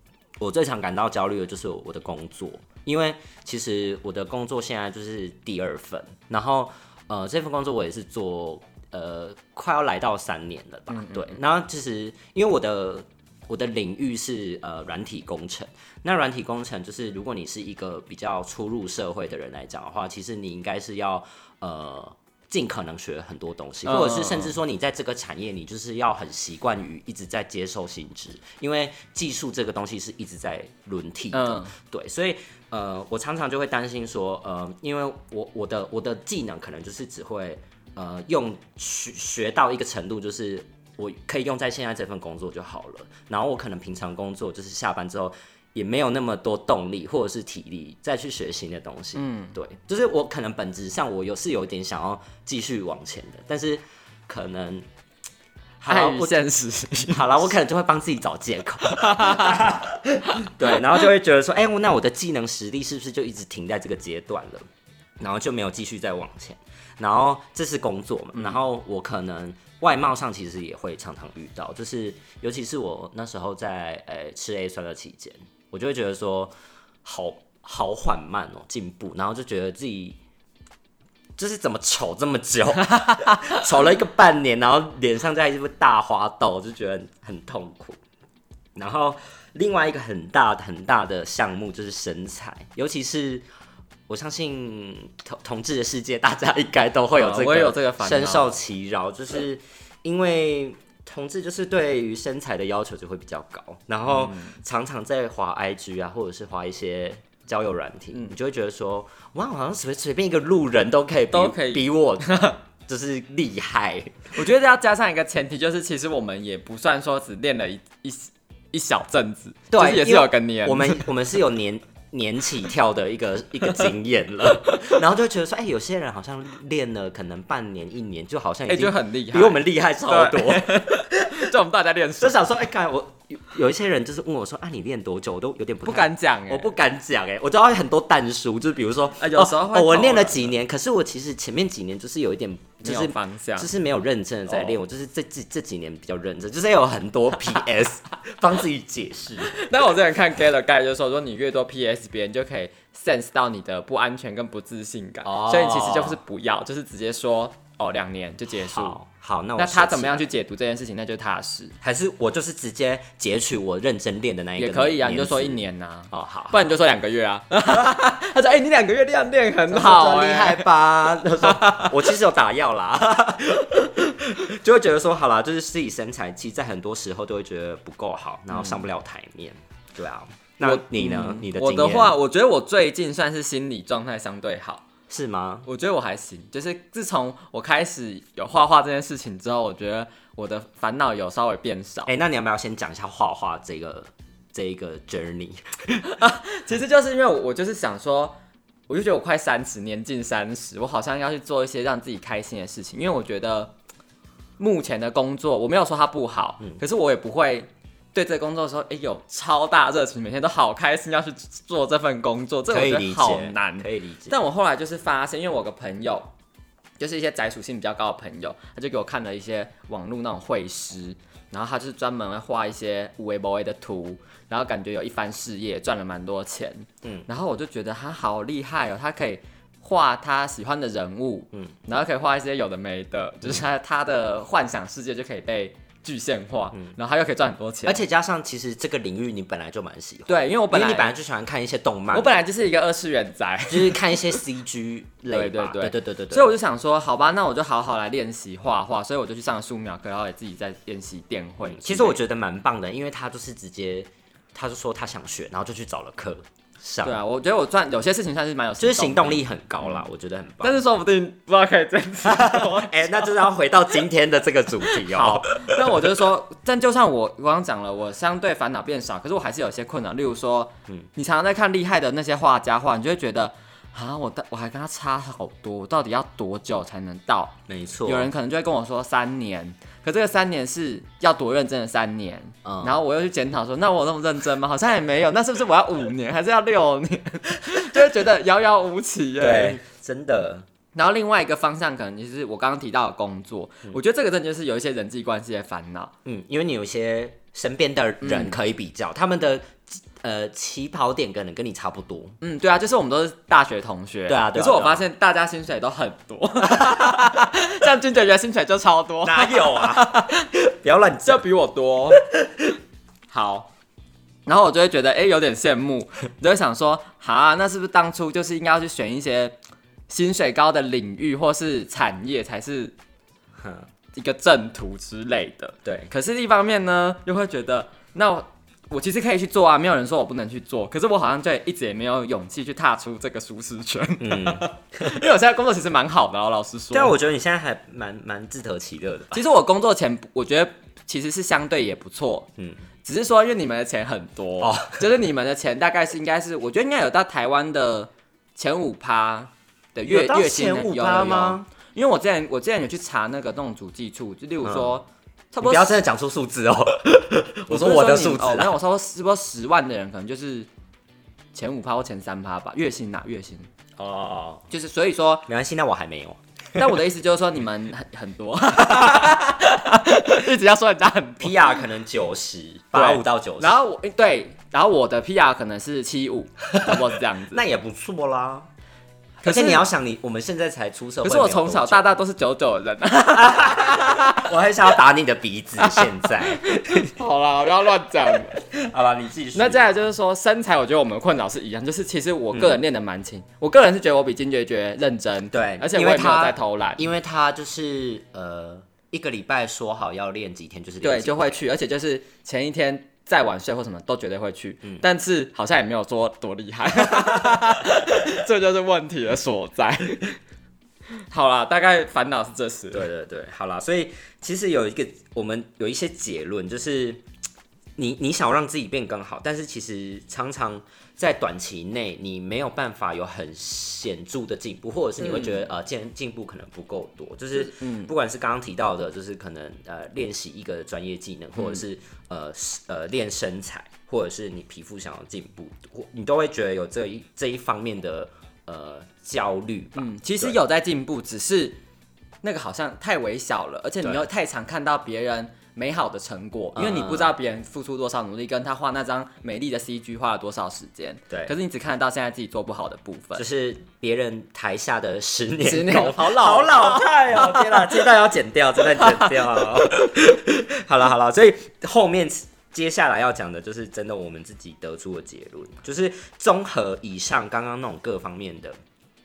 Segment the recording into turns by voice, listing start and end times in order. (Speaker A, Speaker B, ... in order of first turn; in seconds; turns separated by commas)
Speaker A: 0.4-54.9, Speaker B: 10.9-11.4, Speaker B: 23.9-24.6, Speaker B: 31.3-31.7, Speaker B: 49.2-49.5, Speaker A: 55.8-56.4, Speaker B: 55.9-57.5, Speaker A: 57.1-64.7, Speaker B: 58.8-60.8, Speaker A: 65.2-76.5, Speaker A: 77.0-80.2, Speaker A: 81.4-88.0, Speaker A: 88.8-93.5, Speaker A: 94.1-114.3, Speaker B: 97.1-98.5, Speaker B: 104.1-104.6, Speaker B: 111.3-112.6, Speaker B: 114.3-121.1, Speaker A: 119.7-131.5, Speaker B: 124.7-125.0, Speaker B: 128.7-132.4, Speaker A: 132.2-149.6, Speaker B: 135.8-136.7, Speaker B: 139.2-140.5, Speaker B: 142.8-143.7, Speaker B: 149.5-159.0, Speaker A: 155.2-156.2, Speaker A: 158.5-160.3, Speaker B: 159.6-161.8, Speaker A: 161.8-166.6, Speaker B: 164.6-172.0, Speaker A: 169.7-182.2, Speaker B: 178.5-178.8, Speaker B: 180.6-184.8, Speaker A: 185.1-185.7, Speaker B: 185.7-192.1, Speaker A: 192.1-196.1, Speaker B: 196.0-198.4, Speaker B: 198.9-203.8, Speaker B: 204.6-216.3, Speaker A: 212.7-214.4, Speaker B: 217.0-238.0, Speaker A: 237.8-242.3, Speaker B: 240.3-241.1, Speaker B: 242.1-244.2, Speaker A: 243.7-246.5, Speaker B: 245.3-252.2, Speaker A: 251.6-257.2, Speaker B: 257.0-260.1, Speaker A: 258.8-260.8, Speaker B: 260.6-263.3, Speaker A: 262.2-266.2, Speaker B: 264.8-289.8, Speaker A: 277.7-278.3, Speaker A: 282.6-283.0, Speaker A: 289.4-290.7, Speaker B: 290.9-296.1, Speaker A: 296.2-302.4, Speaker B: 298.2-298.6, Speaker B: 302.4-310.5, Speaker A: 304.3-305.1, Speaker A: 306.7-307.1, Speaker A: 309.2-311.4, Speaker B: 311.2-312.2, Speaker A: 312.1-312.8, Speaker B: 313.3-313.7, Speaker B: 314.5-319.6, Speaker B: 320.1-322.9, Speaker A: 323.6-323.9, Speaker B: 324.1-337.1, Speaker A: 325.9-326.1, Speaker A: 334.2-335.2, Speaker A: 336.9-339.4, Speaker B: 339.3-342.5, Speaker B: 343.1-356.0, Speaker A: 344.6-345.1, Speaker A: 350.1-351.7, Speaker A: 354.6-354.9, Speaker A: 355.6-358.8, Speaker B: 357.7-360.7, Speaker B: 361.5-363.7, Speaker A: 364.0-364.6, Speaker B: 364.7-365.5, Speaker A: 365.5-366.9, Speaker B: 366.8-371.8, Speaker A: 371.4-373.8, Speaker B: 372.9-377.6, Speaker A: 376.7-378.7, Speaker B: 379.4-379.9, Speaker A: 379.4-382.1, Speaker B: 381.2-384.5, Speaker A: 383.3-387.1, Speaker B: 385.8-388.6, Speaker A: 388.5-389.9, Speaker B: 389.6-397.1, Speaker A: 392.5-392.8, Speaker A: 395.5-401.6, Speaker B: 401.0-410.4, Speaker A: 407.1-407.6, Speaker B: 411.3-413.1, Speaker A: 412.9-417.2, Speaker A: 418.0-440.6, Speaker B: 425.2-425.7, Speaker B: 427.6-428.1, Speaker B: 440.0-441.8, Speaker B: 442.4-453.4, Speaker A: 446.8-447.3, Speaker A: 453.4-468.8, Speaker B: 455.6-457.9, Speaker B: 459.0-459.5